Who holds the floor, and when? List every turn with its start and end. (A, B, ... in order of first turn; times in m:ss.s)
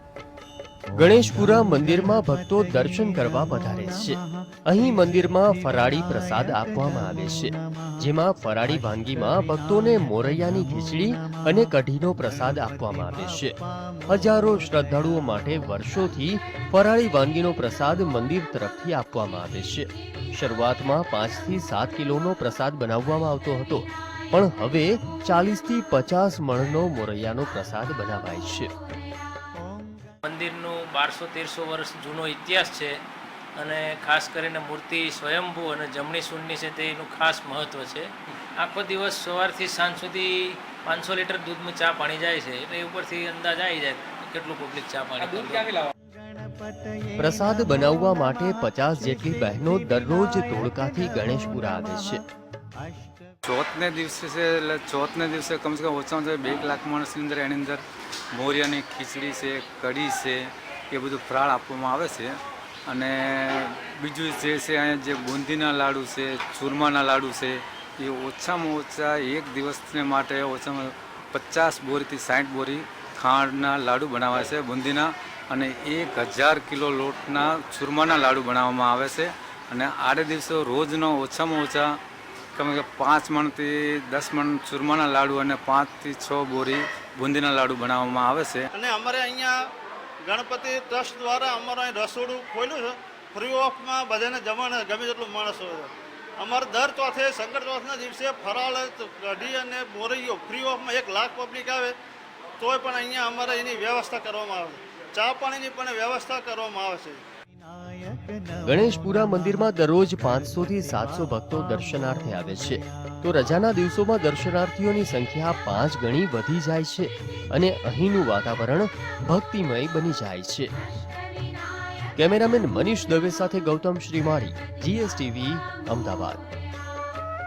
0:00.9-0:28.7 A
0:30.2-0:33.0 B
0:33.6-0:45.9 B
0:47.2-0:52.2 A
0:53.4-0:57.8 C
0:58.3-1:02.3 C
1:02.9-1:22.0 C
1:22.5-1:28.7 C
1:28.7-1:29.5 D
1:30.2-1:41.9 D
1:42.6-1:47.2 D
1:48.6-2:00.7 A
2:02.2-2:06.4 A